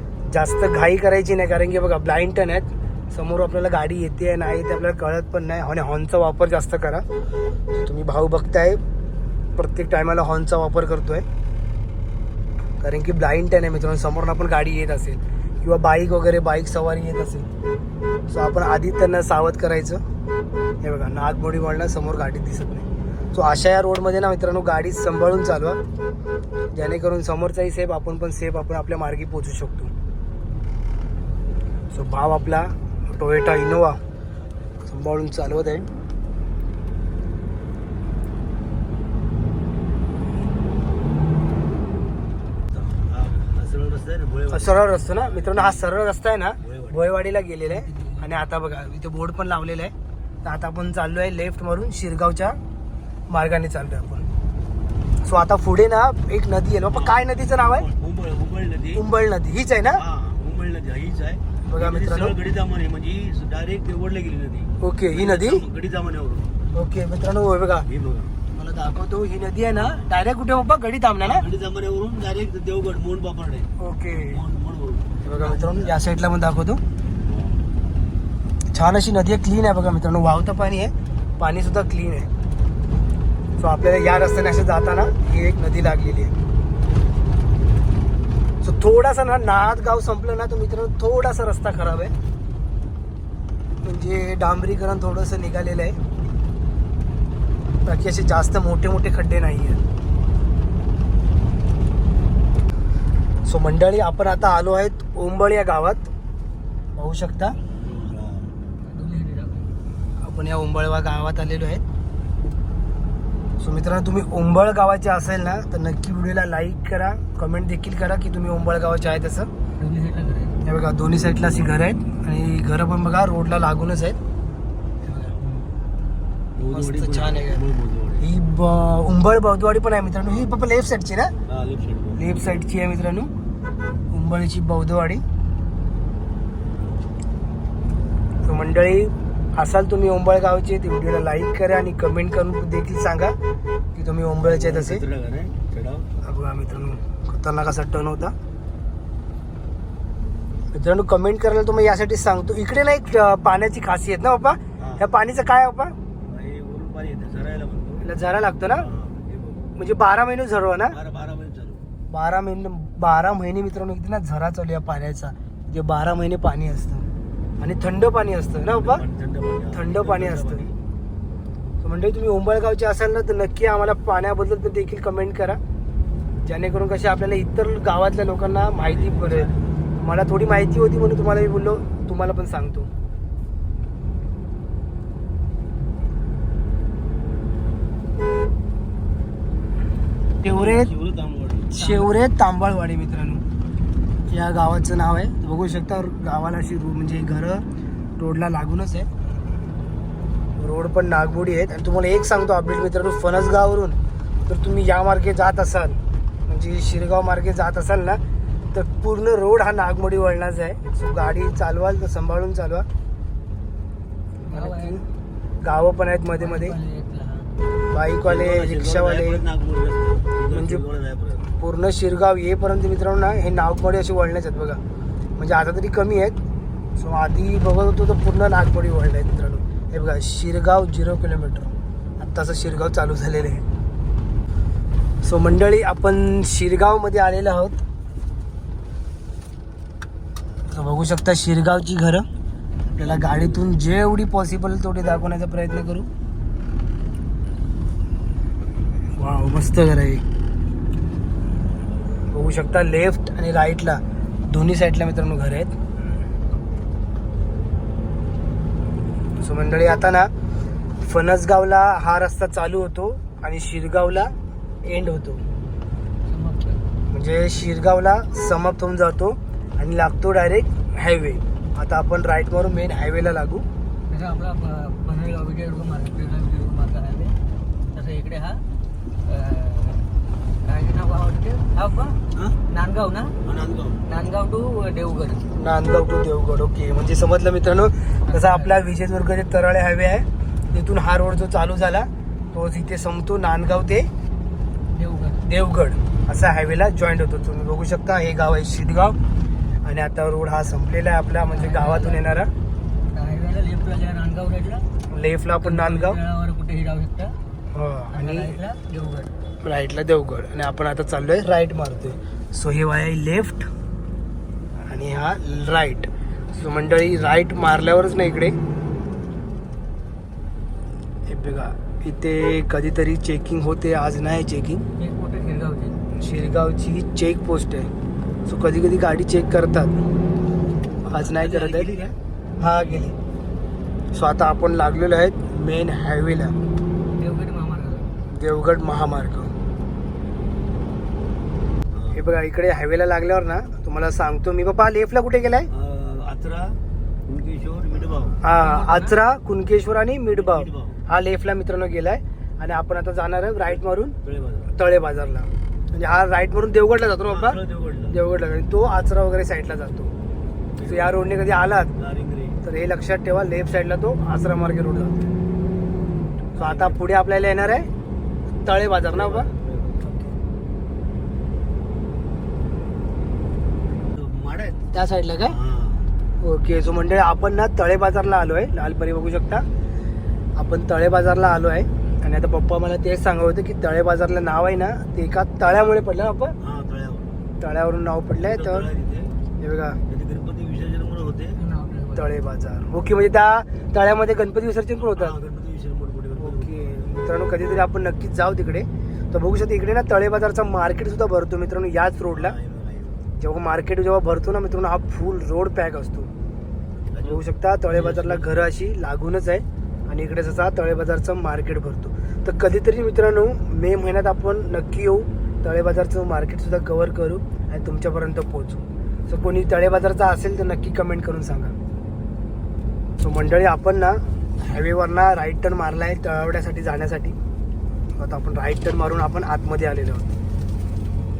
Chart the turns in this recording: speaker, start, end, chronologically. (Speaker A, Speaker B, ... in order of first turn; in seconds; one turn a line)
Speaker A: 0.2-7.0
Speaker A: 7.7-8.8
Speaker A: 9.6-11.2
Speaker A: 12.8-17.4
Speaker A: 18.3-20.0
Speaker A: 20.8-25.8
Speaker A: 26.7-29.9
Speaker A: 31.9-34.0
Speaker A: 34.9-35.9
Speaker B: 42.7-45.9
Speaker A: 44.5-52.6
Speaker B: 46.6-47.0
Speaker C: 47.7-48.4
Speaker A: 53.3-54.3
Speaker A: 55.2-57.9
Speaker B: 56.9-59.0
Speaker A: 58.9-60.0
Speaker B: 59.9-66.6
Speaker A: 61.7-62.3
Speaker A: 64.8-65.6
Speaker A: 66.7-67.9
Speaker B: 67.9-68.3
Speaker A: 68.5-71.5
Speaker B: 69.7-70.1
Speaker B: 71.2-76.0
Speaker A: 73.8-74.4
Speaker A: 75.2-76.8
Speaker B: 77.2-77.7
Speaker A: 78.7-82.3
Speaker A: 83.6-86.3
Speaker A: 88.6-92.1
Speaker A: 93.8-96.0
Speaker A: 97.8-99.8
Speaker A: 103.5-106.1
Speaker A: 107.0-107.6
Speaker B: 107.8-108.5
Speaker C: 108.8-109.7
Speaker A: 110.2-111.8
Speaker A: 113.6-119.5
Speaker C: 119.8-120.6
Speaker A: 120.6-124.2
Speaker A: 125.0-125.3
Speaker C: 125.3-125.7
Speaker B: 126.5-128.3
Speaker A: 126.7-127.7
Speaker A: 128.2-131.3
Speaker B: 130.2-130.5
Speaker B: 131.5-132.4
Speaker A: 132.2-133.3
Speaker A: 134.1-135.2
Speaker A: 138.4-143.3
Speaker A: 143.9-145.0
Speaker B: 144.4-146.1
Speaker A: 146.2-148.3
Speaker A: 150.7-155.9
Speaker B: 154.8-155.1
Speaker B: 156.2-158.1
Speaker A: 158.0-158.9
Speaker B: 158.7-159.7
Speaker A: 159.8-161.0
Speaker B: 160.9-161.8
Speaker A: 162.1-167.1
Speaker A: 167.6-169.0
Speaker B: 168.6-170.8
Speaker A: 169.7-170.7
Speaker A: 171.8-175.6
Speaker A: 176.4-182.9
Speaker B: 178.7-179.8
Speaker A: 190.4-190.9
Speaker B: 190.4-191.8
Speaker A: 191.7-193.4
Speaker C: 191.8-192.2
Speaker A: 194.3-197.6
Speaker A: 198.2-199.1
Speaker A: 200.6-208.2
Speaker A: 208.7-212.8
Speaker A: 214.4-215.0
Speaker C: 214.5-215.0
Speaker A: 215.6-216.8
Speaker C: 216.3-217.6
Speaker A: 217.9-219.4
Speaker B: 218.2-221.5
Speaker A: 220.5-220.8
Speaker A: 221.6-224.8
Speaker A: 225.4-226.4
Speaker A: 227.0-233.7
Speaker A: 235.2-237.8
Speaker A: 240.7-242.3
Speaker B: 242.9-243.7
Speaker A: 242.9-246.1
Speaker A: 249.1-250.2
Speaker A: 252.3-255.8
Speaker A: 259.4-260.3
Speaker A: 261.0-265.4
Speaker C: 266.2-266.9
Speaker A: 267.1-273.6
Speaker C: 274.1-277.4
Speaker C: 277.9-278.6
Speaker C: 279.2-280.1
Speaker C: 280.6-283.3
Speaker B: 283.4-284.0
Speaker C: 284.0-285.5
Speaker A: 285.5-294.1
Speaker C: 288.2-288.8
Speaker C: 294.9-295.5
Speaker A: 295.4-299.2
Speaker A: 299.8-302.5
Speaker C: 301.5-302.3
Speaker C: 303.0-304.8
Speaker A: 305.1-306.2
Speaker C: 305.6-307.4
Speaker A: 307.7-308.6
Speaker C: 308.1-309.3
Speaker A: 309.6-313.7
Speaker A: 314.9-318.5
Speaker A: 321.3-324.8
Speaker C: 324.9-326.0
Speaker A: 326.2-327.9
Speaker A: 328.4-330.0
Speaker A: 331.0-333.1
Speaker C: 331.1-332.1
Speaker A: 334.1-336.5
Speaker C: 337.1-338.1
Speaker A: 338.3-339.5
Speaker B: 341.9-342.2
Speaker A: 342.1-345.7
Speaker B: 345.7-348.4
Speaker A: 348.4-354.1
Speaker C: 348.5-349.2
Speaker B: 350.3-351.0
Speaker B: 354.2-354.7
Speaker A: 354.7-357.6
Speaker B: 357.3-358.2
Speaker A: 358.1-360.1
Speaker B: 360.8-361.2
Speaker A: 360.8-361.9
Speaker B: 361.9-362.6
Speaker A: 362.6-365.2
Speaker B: 366.5-367.1
Speaker A: 366.6-367.9
Speaker A: 368.6-369.5
Speaker B: 369.0-370.1
Speaker A: 370.0-370.3
Speaker B: 374.1-376.1
Speaker A: 374.9-375.6
Speaker A: 376.4-379.6
Speaker A: 380.6-386.5
Speaker B: 386.6-387.4
Speaker A: 387.6-388.9
Speaker B: 388.3-389.3
Speaker A: 389.6-390.0
Speaker B: 390.1-391.6
Speaker C: 391.6-392.4
Speaker A: 392.1-395.4
Speaker B: 395.0-397.1
Speaker A: 396.4-402.6
Speaker B: 402.3-403.2
Speaker A: 403.4-406.3
Speaker B: 407.1-408.6
Speaker A: 407.2-421.7
Speaker A: 423.2-427.3
Speaker A: 428.2-430.3